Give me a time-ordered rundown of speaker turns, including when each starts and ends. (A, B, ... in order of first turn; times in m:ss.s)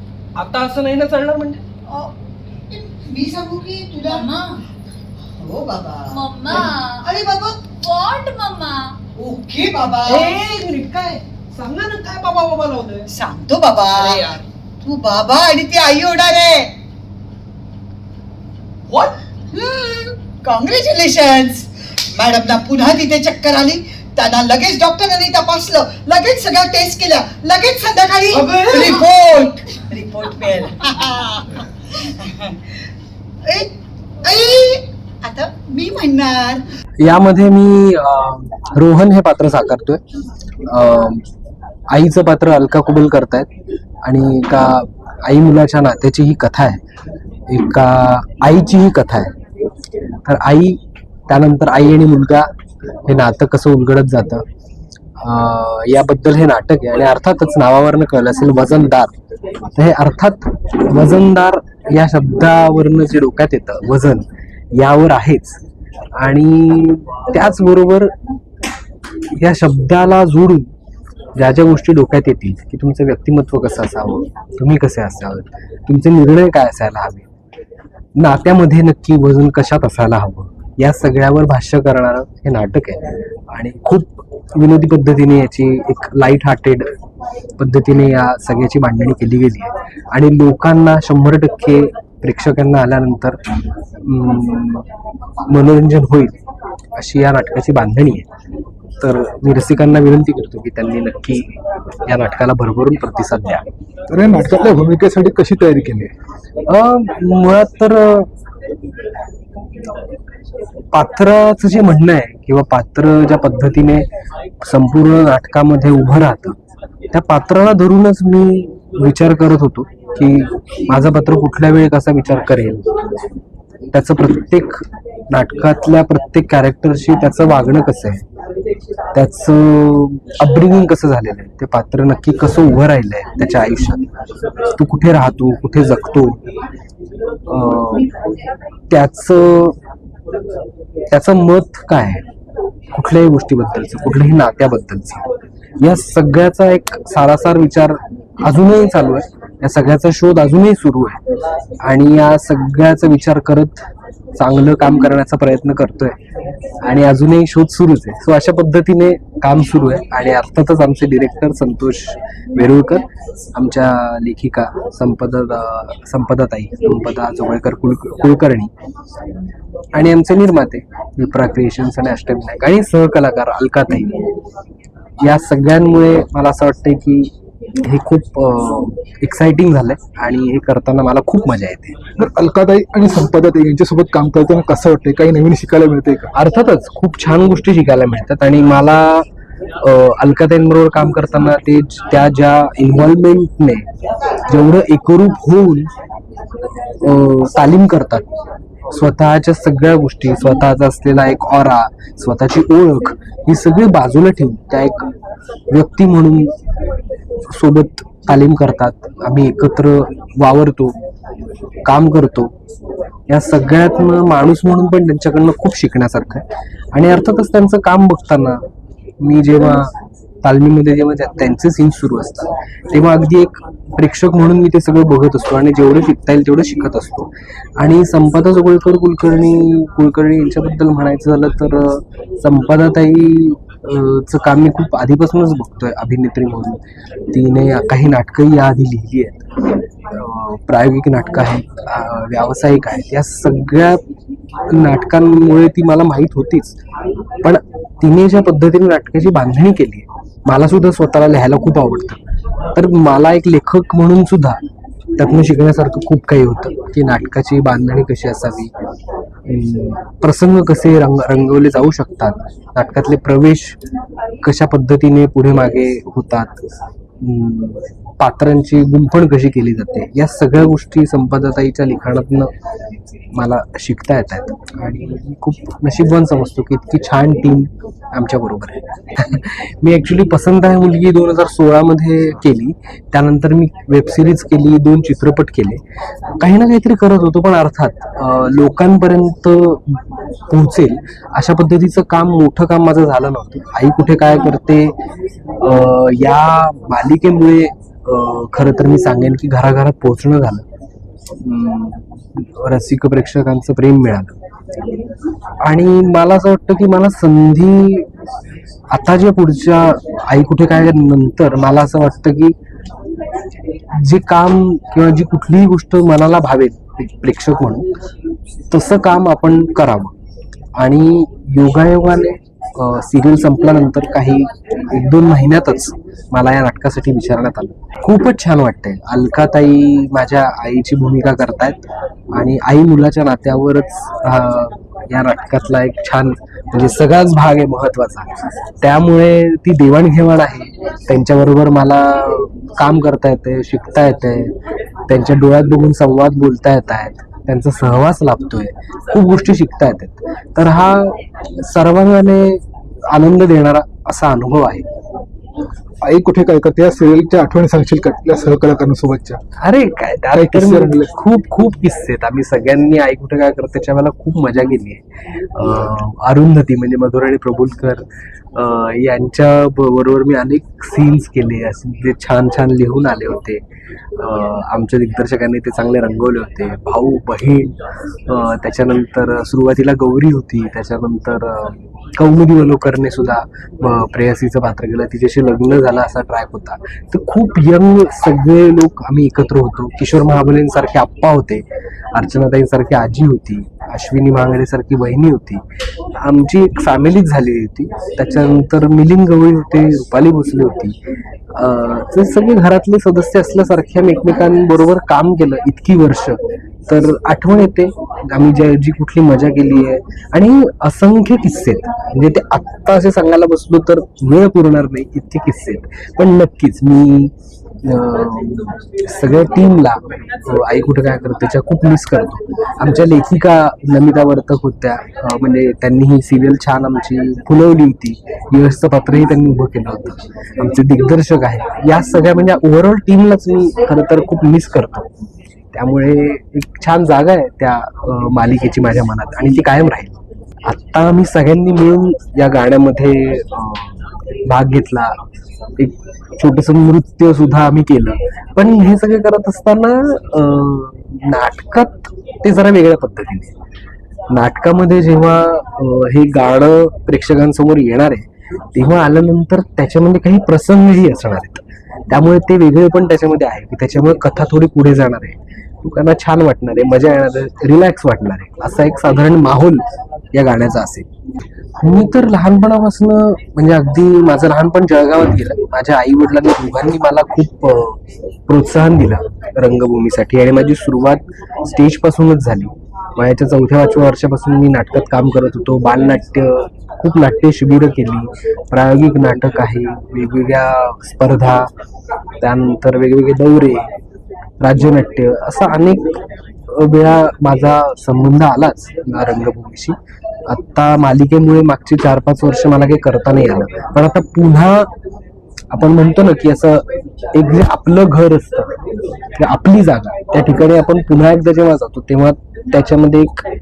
0:00.3-0:01.6 A
0:02.7-0:04.3 B
0:04.0-0:04.6 C
0:05.3-0:07.7 B
0:06.1-0:07.1 C
0:07.8-0:09.0 C
0:09.1-0:10.4 B
0:10.0-0:13.1 A
0:13.1-0:16.7 B
0:13.9-0:14.4 A
0:19.5-0:32.8 B
0:28.3-0:29.0 A
0:33.4-0:33.7 B
0:34.2-0:36.6 B
0:37.0-0:40.0 D
0:40.6-0:41.3 D
0:41.9-0:43.5 D
0:44.0-0:46.8 D
0:47.5-0:49.3 D
0:50.2-0:52.5 D
0:53.0-0:54.4 D
0:55.2-0:59.1 D
0:59.7-1:05.6 D
1:06.2-1:08.1 D
1:09.4-1:10.7 D
1:11.4-1:17.3 D
1:18.2-1:26.9 D
1:27.6-1:33.4 D
1:34.0-1:34.9 D
1:35.5-1:36.4 D
1:37.0-1:38.3 D
1:39.0-1:41.5 D
1:42.0-1:43.6 D
1:44.1-1:46.1 E
1:46.6-1:48.3 D
1:50.9-1:54.1 D
1:54.6-1:56.6 D
1:57.1-2:02.8 D
2:03.9-2:08.2 D
2:09.1-2:14.0 D
2:14.8-2:16.4 D
2:17.5-2:18.1 D
2:18.9-2:19.8 D
2:21.1-2:22.2 D
2:22.9-2:25.2 D
2:25.8-2:31.2 D
2:31.8-2:36.2 D
2:36.8-2:48.7 D
2:49.9-2:54.2 D
2:55.2-3:02.0 D
3:02.2-3:06.3 E
3:06.3-3:09.3 D
3:09.8-3:13.8 D
3:14.5-3:15.9 D
3:17.0-3:18.2 D
3:18.9-3:25.1 D
3:25.7-3:26.5 D
3:27.5-3:31.0 D
3:31.8-3:32.5 D
3:33.3-3:38.6 D
3:39.2-3:56.8 D
3:57.3-3:59.4 D
4:00.1-4:04.0 D
4:04.7-4:06.8 D
4:07.4-4:12.2 D
4:12.7-4:14.6 D
4:15.2-4:18.7 D
4:19.5-4:23.8 D
4:24.4-4:32.5 D
4:33.3-4:45.8 D
4:46.4-4:54.9 D
4:55.6-5:00.6 D
5:01.4-5:04.3 D
5:05.6-5:08.1 D
5:08.9-5:12.6 D
5:14.0-5:17.9 D
5:18.7-5:20.1 D
5:20.8-5:44.5 D
5:45.1-5:54.8 D
5:56.0-5:59.4 E
5:59.6-6:13.6 D
6:00.3-6:01.1 E
6:14.2-6:17.8 D
6:18.3-6:35.6 D
6:36.2-6:41.0 D
6:41.5-6:57.3 D
6:57.8-7:15.1 D
7:15.7-7:25.2 D
7:25.8-7:33.5 D
7:34.3-7:51.0 D
7:51.8-8:11.7 D
8:12.4-8:13.9 D
8:14.6-8:24.9 D
8:25.7-8:28.7 D
8:29.4-8:33.4 D